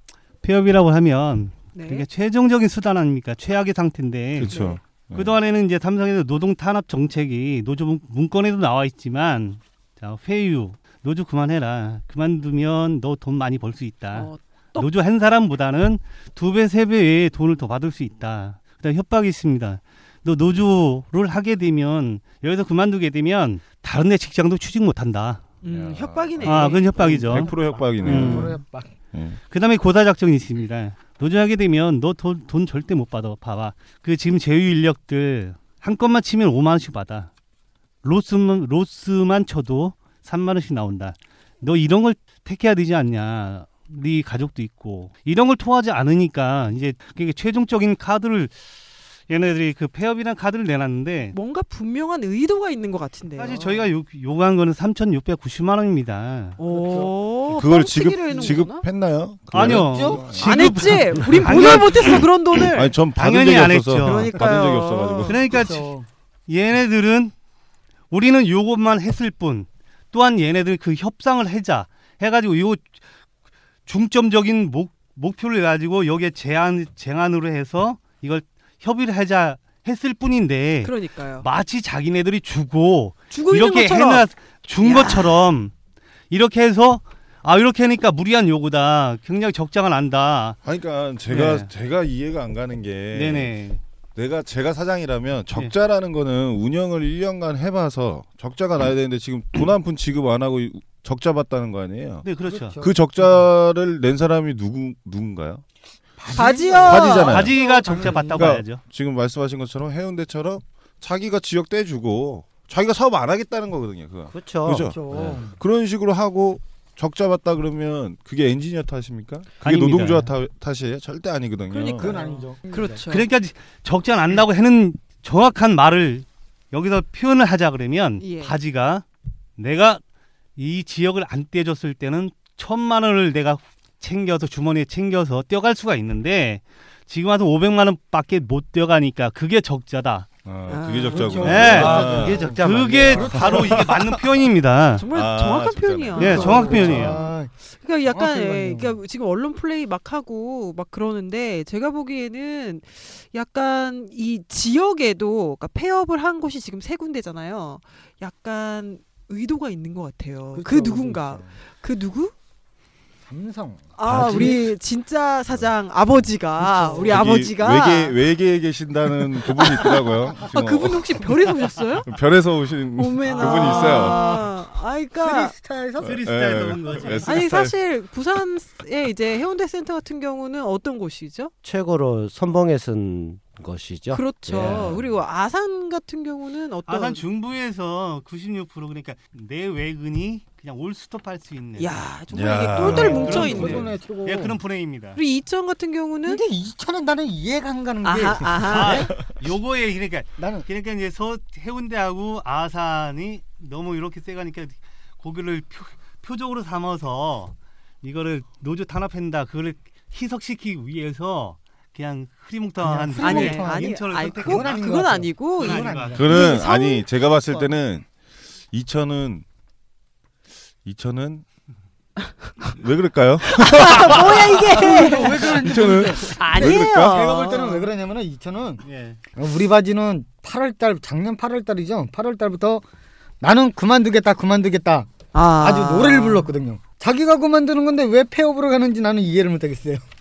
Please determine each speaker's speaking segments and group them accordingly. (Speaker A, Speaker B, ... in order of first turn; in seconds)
Speaker A: 0.4-4.6, 5.1-25.4, 26.4-28.6, 29.5-37.3, 38.0-48.5, 49.3-51.4, 53.4-56.6, 59.5-62.3, 63.1-64.4, 65.3-65.9, 66.5-67.3, 68.1-72.9, 73.9-85.7, 86.3-90.6, 91.3-91.7, 93.1-93.8, 102.2-102.8, 107.2-108.8, 119.6-120.3, 123.1-129.0, 129.6-130.0, 130.6-140.3, 141.4-145.1, 146.2-147.2, 176.0-177.3, 186.9-192.0, 193.1-195.2, 198.6-214.9, 215.6-216.5, 228.8-229.2
Speaker B: 1.7-2.1, 4.5-4.8, 14.1-14.9, 25.6-26.9, 51.3-53.9, 56.6-58.9, 60.4-62.9, 64.0-65.3, 80.8-81.5, 83.3-84.2, 84.8-85.4, 106.3-107.3, 121.7-123.2, 128.2-128.5, 140.7-141.4, 145.0-147.2, 147.8-162.3, 164.0-168.2, 169.5-172.1, 173.0-175.5, 177.2-181.5, 184.1-187.2, 191.8-193.9, 195.1-196.4, 198.0-199.1, 213.2-217.1, 223.5-225.6, 226.3-227.9, 235.3-236.5
Speaker C: 4.4-5.4, 25.6-28.5, 29.1-29.4, 57.5-61.0, 62.8-65.5, 90.6-93.5, 94.2-102.3, 102.8-105.6, 106.8-122.1, 140.4-142.5, 143.3-144.2, 145.1-147.2, 164.0-164.7, 167.1-171.3, 172.0-174.2, 176.0-177.7, 184.6-185.0, 192.3-193.6, 216.1-218.1, 218.7-219.4, 220.8-221.4, 222.6-227.3
Speaker D: 27.7-28.9, 56.7-57.1, 59.6-60.2, 65.5-66.0, 102.4-103.2, 106.2-108.5, 114.8-115.5, 122.0-123.0, 141.1-143.8, 146.2-147.5, 148.1-149.0, 160.5-161.5, 163.2-164.7, 166.6-167.2, 173.3-174.4, 175.2-176.2, 192.8-194.6, 196.2-199.1, 200.4-200.7, 212.8-216.5, 224.8-228.8, 229.4-232.8, 233.4-240.0
Speaker E: 114.3-115.4, 141.4-143.6, 181.6-185.0